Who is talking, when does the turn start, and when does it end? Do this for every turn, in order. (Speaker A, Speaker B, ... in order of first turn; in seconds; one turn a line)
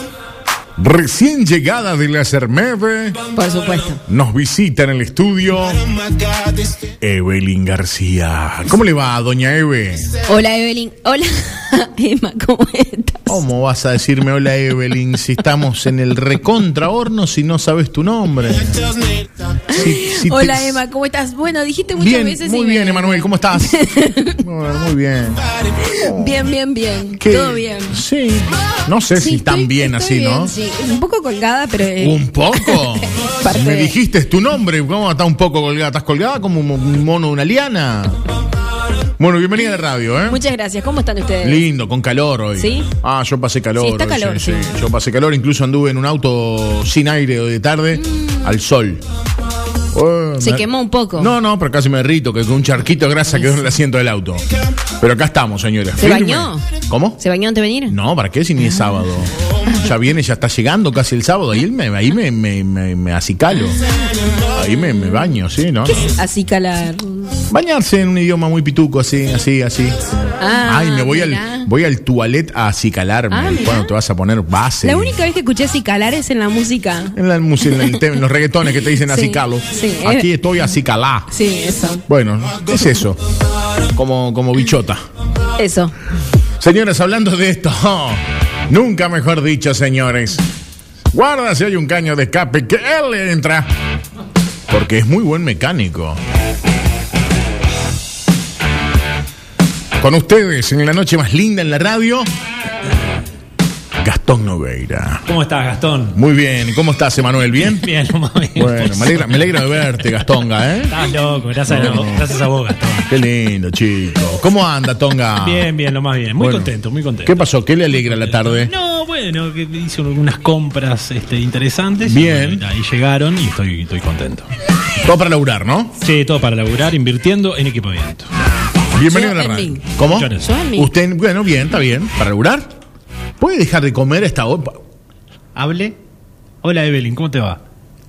Speaker A: 0.8-3.2
Speaker B: 3.4-4.0
Speaker A: 4.1-5.9
Speaker A: 7.0-10.2
Speaker B: 10.2-13.4
Speaker A: 13.3-19.0
Speaker B: 19.7-24.4
Speaker A: 19.7-20.8
Speaker A: 22.0-23.8
Speaker A: 24.4-26.5
Speaker B: 25.8-28.0
Speaker A: 27.2-30.5
Speaker B: 29.1-34.0
Speaker A: 32.0-38.2
Speaker A: 39.2-40.4
Speaker B: 40.3-41.6
Speaker A: 41.4-49.0
Speaker B: 42.6-42.9
Speaker B: 43.8-44.7
Speaker B: 47.9-48.5
Speaker A: 49.9-54.4
Speaker B: 50.4-51.3
Speaker A: 55.0-57.2
Speaker B: 56.0-58.0
Speaker A: 57.9-63.8
Speaker A: 64.5-66.1
Speaker B: 65.8-67.4
Speaker A: 67.5-70.0
Speaker B: 70.4-71.7
Speaker A: 70.7-75.2
Speaker B: 73.3-73.9
Speaker B: 74.8-78.2
Speaker A: 77.2-81.3
Speaker B: 78.8-80.3
Speaker B: 81.3-82.0
Speaker A: 82.1-83.2
Speaker A: 83.9-85.0
Speaker B: 85.6-85.9
Speaker A: 86.6-90.5
Speaker A: 91.1-93.7
Speaker A: 94.7-96.2
Speaker A: 100.0-102.3
Speaker A: 104.0-105.2
Speaker C: 105.3-106.2
Speaker A: 106.1-107.9
Speaker C: 107.6-110.2
Speaker A: 108.6-111.0
Speaker C: 110.9-113.1
Speaker A: 111.7-112.3
Speaker A: 113.1-115.7
Speaker C: 115.4-124.5
Speaker A: 116.4-116.7
Speaker A: 117.2-118.7
Speaker A: 122.0-122.7
Speaker A: 125.0-125.9
Speaker C: 126.0-128.3
Speaker A: 128.9-132.7
Speaker B: 129.1-129.8
Speaker C: 130.0-130.5
Speaker B: 130.4-130.9
Speaker A: 133.4-134.8
Speaker C: 135.6-136.0
Speaker C: 136.6-137.6